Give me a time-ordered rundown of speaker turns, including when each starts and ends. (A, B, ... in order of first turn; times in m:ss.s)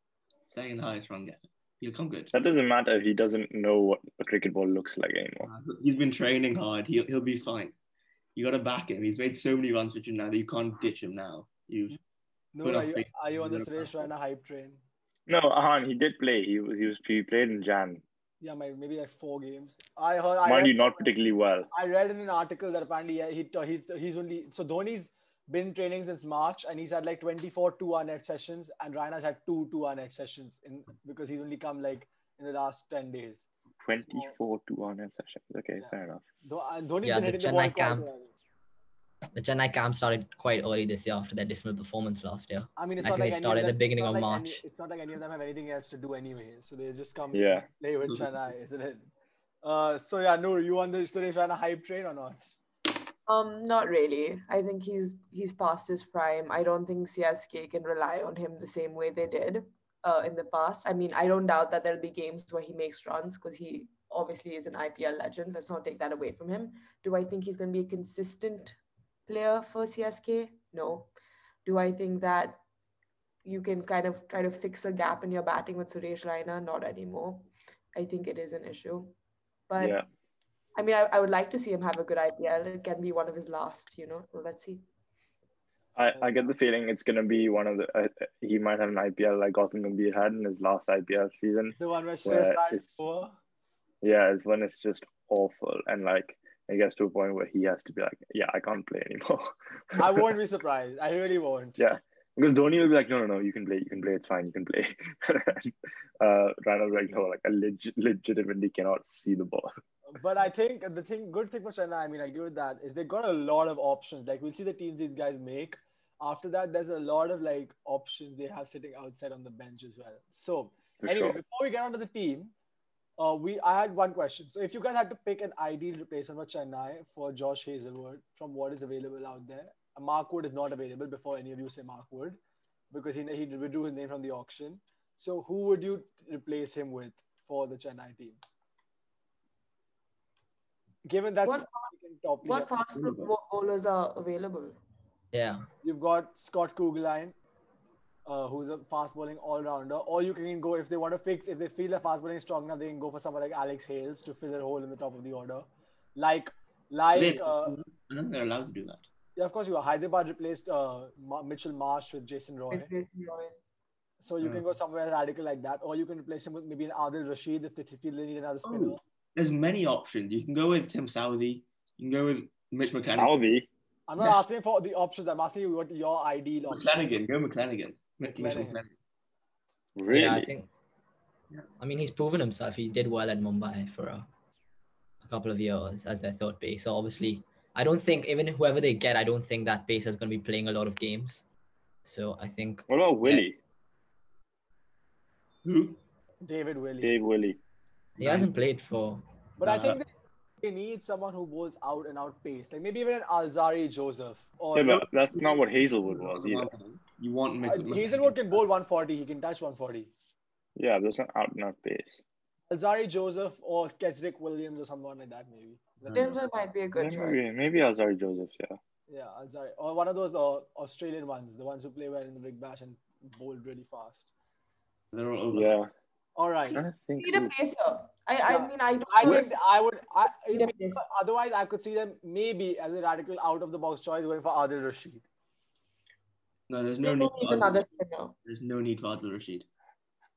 0:00.5-0:02.3 A
0:02.3-0:05.5 B
0:05.4-0:07.8 A
0:08.4-0:12.0 A
0:12.5-0:14.8 C
0:12.6-0:14.1 A
0:15.3-0:18.0 B
0:18.4-0:21.1 C
0:20.4-0:21.7 B
0:21.7-0:34.3 C
0:33.8-0:36.2 B
0:36.4-0:38.3 C
0:37.0-0:38.1 D
0:39.4-0:44.6 D
0:42.8-0:49.1 C
0:47.3-0:47.6 B
0:48.0-0:48.3 A
0:49.6-0:52.6 C
0:53.3-1:11.1 E
1:11.6-1:12.6 E
1:13.4-1:19.2 E
1:19.7-1:20.0 E
1:19.8-1:20.1 B
1:20.8-1:24.8 E
1:26.0-1:32.9 B
1:26.1-1:26.6 C
1:31.8-1:33.4 C
1:34.0-1:40.2 B
1:40.0-1:41.8 C
1:41.8-1:49.7 B
1:50.1-2:02.5 C
2:01.0-2:01.4 B
2:03.2-2:12.4 C
2:12.9-2:18.4 C
2:21.0-2:22.7 C
2:21.4-2:21.9 E
2:22.4-2:24.8 E
2:22.9-2:23.3 A
2:25.3-2:25.7 D
2:25.8-2:27.4 C
2:28.3-2:37.8 C
2:37.1-2:39.1 A
2:39.4-2:42.9 C
2:42.7-2:43.6 E
2:44.2-2:49.0 C
2:44.4-2:44.7 A
2:48.6-2:53.4 A
2:53.1-2:53.7 B
2:54.1-2:57.2 C
2:56.7-2:58.9 A
2:58.2-2:58.8 C
3:00.0-3:00.5 B
3:00.1-3:00.7 D
3:01.8-3:04.3 D
3:05.2-3:11.4 D
3:12.1-3:13.4 D
3:12.9-3:13.6 B
3:15.6-3:16.0 A
3:16.4-3:17.2 C
3:17.0-3:17.6 B
3:18.2-3:20.0 D
3:18.2-3:18.5 A
3:19.6-3:20.1 C
3:20.6-3:25.0 C
3:24.7-3:26.7 B
3:24.8-3:28.4 A
3:27.6-3:30.1 C
3:30.8-3:32.2 B
3:32.7-3:36.6 C
3:36.1-3:37.4 E
3:37.0-3:38.8 B
3:39.1-3:44.3 C
3:45.1-3:45.8 A
3:45.5-3:45.9 B
3:46.4-3:46.8 C
3:46.7-3:47.5 B
3:47.2-3:49.6 E
3:48.5-3:55.2 C
3:50.5-3:51.0 E
3:56.7-3:57.9 A
3:57.0-3:58.3 E
3:58.4-3:59.7 A